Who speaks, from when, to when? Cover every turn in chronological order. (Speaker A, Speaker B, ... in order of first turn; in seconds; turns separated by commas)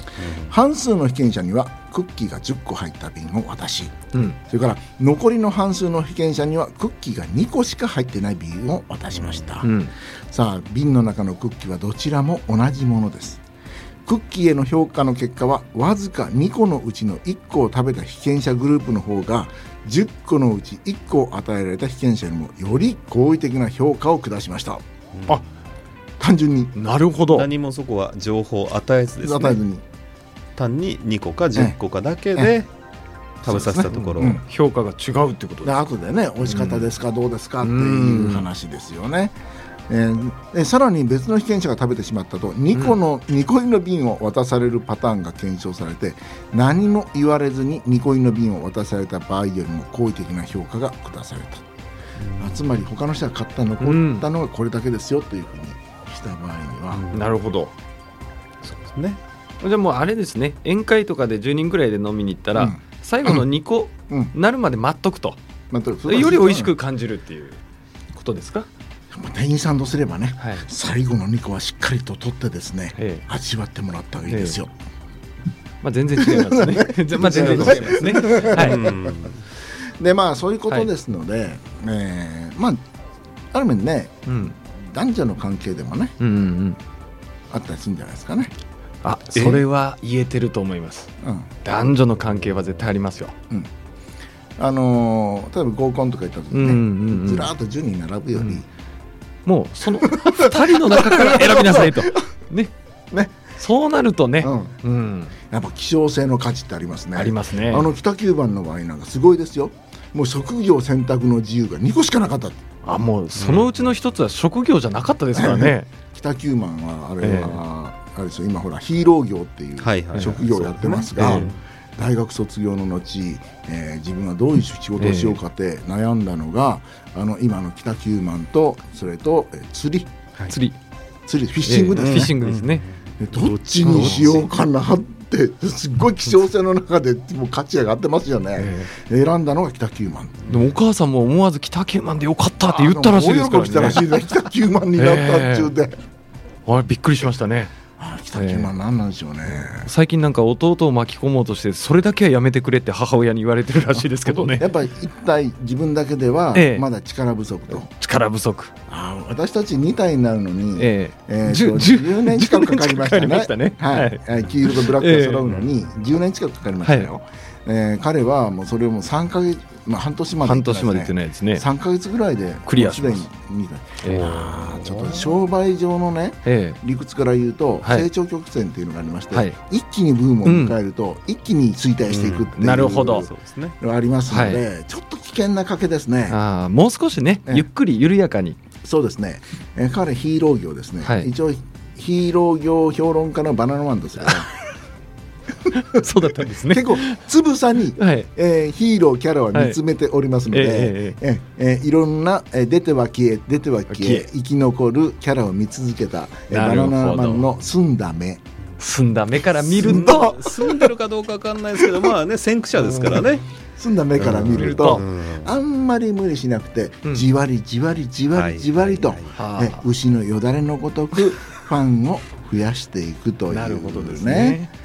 Speaker A: 0.2-0.5, Speaker B: 0.5-9.8, Speaker A: 9.2-9.5, Speaker C: 9.6-9.9, Speaker B: 10.3-13.4, Speaker B: 14.1-24.8, Speaker A: 25.1-25.4, Speaker B: 26.2-26.8, Speaker C: 26.8-27.5, Speaker A: 27.3-29.6, Speaker B: 29.2-29.8, Speaker A: 30.6-32.7, Speaker A: 33.4-34.4, Speaker B: 33.4-34.4, Speaker C: 33.9-35.8, Speaker B: 35.6-39.4, Speaker C: 36.4-36.9, Speaker C: 37.6-38.5, Speaker B: 39.9-51.6, Speaker A: 52.2-52.7, Speaker B: 52.4-57.1, Speaker C: 53.8-54.3, Speaker A: 56.9-57.3, Speaker C: 57.1-57.7, Speaker A: 58.6-59.2, Speaker C: 59.6-65.4, Speaker B: 62.5-63.5, Speaker B: 65.7-66.8, Speaker C: 66.1-67.6, Speaker C: 68.1-68.7, Speaker B: 69.1-74.7, Speaker C: 70.4-70.7, Speaker C: 73.0-73.2, Speaker C: 74.3-74.6, Speaker C: 75.8-78.8, Speaker B: 76.2-79.2, Speaker A: 77.2-79.4, Speaker B: 80.0-82.8, Speaker B: 83.5-86.2, Speaker C: 84.3-84.5, Speaker C: 86.2-86.8, Speaker B: 87.5-88.5, Speaker C: 89.0-91.1, Speaker A: 89.3-89.6, Speaker B: 91.2-91.6, Speaker C: 91.6-93.3, Speaker A: 92.3-92.6, Speaker B: 94.6-98.7, Speaker C: 96.5-97.5, Speaker C: 99.5-102.7, Speaker B: 99.8-102.3, Speaker B: 103.1-103.4, Speaker C: 103.6-105.3, Speaker B: 104.4-104.8, Speaker B: 105.5-112.6, Speaker C: 107.2-107.9, Speaker C: 112.8-115.9, Speaker A: 113.3-113.8, Speaker B: 115.3-130.1, Speaker C: 117.2-117.6, Speaker A: 119.8-120.4, Speaker C: 120.2-121.5, Speaker A: 121.2-121.6, Speaker C: 125.0-125.4, Speaker C: 130.5-130.8, Speaker B: 131.3-132.3, Speaker C: 131.6-132.8, Speaker A: 131.9-134.4, Speaker B: 133.2-140.4, Speaker C: 133.8-134.4, Speaker C: 138.6-138.9, Speaker A: 140.4-140.7, Speaker C: 140.5-144.2, Speaker B: 142.6-145.9, Speaker C: 144.9-145.7, Speaker C: 146.7-147.7, Speaker B: 148.0-149.9, Speaker C: 148.3-148.7, Speaker C: 149.5-154.7, Speaker B: 153.9-157.9, Speaker C: 156.5-156.9, Speaker C: 157.8-158.7, Speaker B: 158.9-183.3, Speaker C: 160.8-165.6, Speaker C: 166.8-167.1, Speaker C: 170.4-171.7, Speaker C: 172.7-173.3, Speaker C: 174.0-174.4, Speaker A: 174.1-175.4, Speaker C: 176.4-176.8, Speaker C: 177.8-178.1, Speaker C: 180.4-180.8, Speaker A: 182.1-183.8, Speaker C: 182.6-183.3, Speaker B: 183.8-186.4, Speaker C: 184.3-184.6, Speaker C: 186.3-188.6, Speaker B: 188.8-194.5, Speaker C: 191.0-191.3, Speaker C: 195.7-197.2, Speaker B: 196.3-208.4, Speaker C: 198.0-198.3, Speaker C: 199.5-199.8, Speaker C: 200.5-201.2, Speaker C: 203.9-204.3, Speaker C: 206.5-207.6, Speaker C: 208.8-210.4, Speaker A: 209.6-213.4, Speaker B: 209.7-210.9, Speaker B: 211.8-212.1, Speaker B: 212.9-224.6, Speaker A: 214.2-215.5, Speaker C: 214.3-215.0, Speaker A: 218.3-219.3, Speaker C: 219.3-219.9, Speaker C: 223.5-224.7